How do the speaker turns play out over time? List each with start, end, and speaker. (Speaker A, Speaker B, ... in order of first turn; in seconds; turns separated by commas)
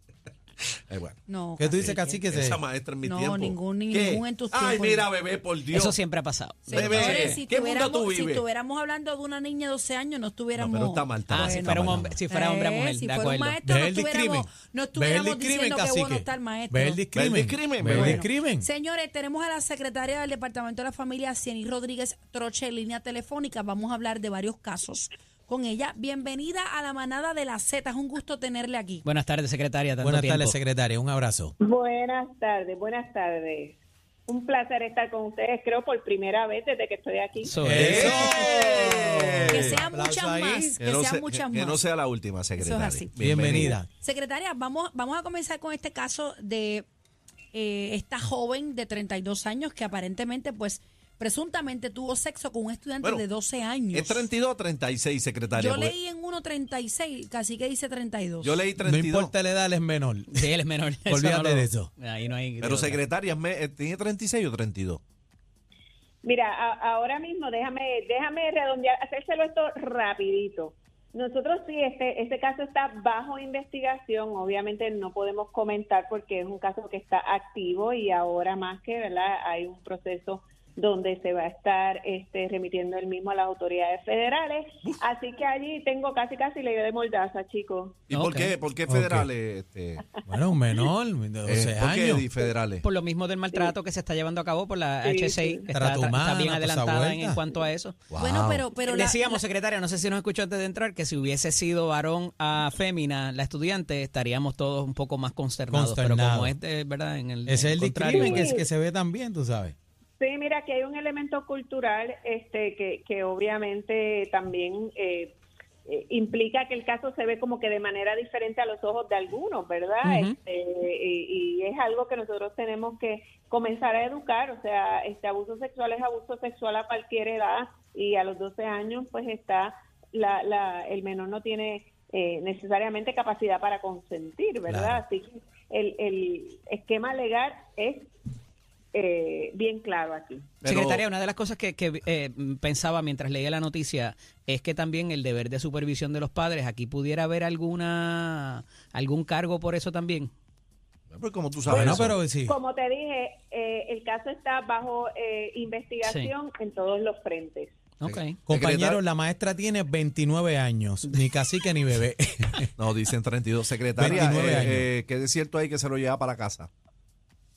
Speaker A: 0.9-1.2, Speaker B: 1.3-2.2, Speaker C: 1.6-2.6, Speaker A: 2.3-5.9, Speaker B: 3.0-5.1, Speaker D: 5.7-7.4, Speaker B: 6.7-17.0, Speaker E: 6.8-7.4, Speaker A: 6.8-8.4, Speaker A: 10.6-11.5, Speaker D: 11.3-13.6, Speaker E: 11.5-11.9, Speaker C: 11.8-12.1, Speaker C: 13.7-18.7, Speaker A: 17.1-18.0, Speaker B: 17.8-29.0, Speaker D: 29.0-30.6, Speaker C: 30.0-31.5, Speaker E: 31.6-38.1, Speaker D: 37.4-38.2, Speaker C: 37.6-40.8, Speaker A: 37.9-38.9, Speaker B: 38.3-38.6, Speaker B: 39.5-41.8, Speaker A: 40.8-43.8, Speaker B: 42.6-46.9, Speaker C: 43.2-43.9, Speaker B: 47.5-54.3, Speaker A: 53.9-55.9, Speaker B: 55.5-58.6, Speaker A: 58.4-59.3, Speaker C: 58.8-60.5, Speaker D: 60.3-63.0, Speaker C: 61.0-61.9, Speaker A: 62.6-65.0, Speaker E: 66.2-88.1, Speaker D: 88.1-88.5, Speaker A: 88.1-90.0, Speaker C: 88.9-89.3, Speaker C: 90.2-92.3, Speaker A: 91.5-92.8, Speaker D: 92.8-98.0, Speaker E: 95.0-95.6, Speaker C: 95.7-97.4, Speaker A: 98.1-98.6, Speaker B: 98.2-99.4, Speaker D: 98.9-108.4, Speaker C: 105.7-106.5, Speaker C: 107.5-109.7, Speaker E: 108.1-108.6, Speaker E: 110.2-115.3, Speaker E: 115.9-138.1, Speaker D: 120.0-120.3, Speaker C: 134.7-135.0, Speaker E: 138.9-141.0, Speaker D: 140.6-150.3, Speaker A: 151.1-152.1, Speaker E: 151.6-157.8, Speaker C: 151.7-152.5, Speaker D: 156.0-156.3, Speaker D: 158.0-158.4, Speaker A: 158.1-159.0, Speaker C: 158.5-162.7, Speaker A: 162.9-166.7, Speaker C: 164.0-164.9, Speaker E: 164.1-164.6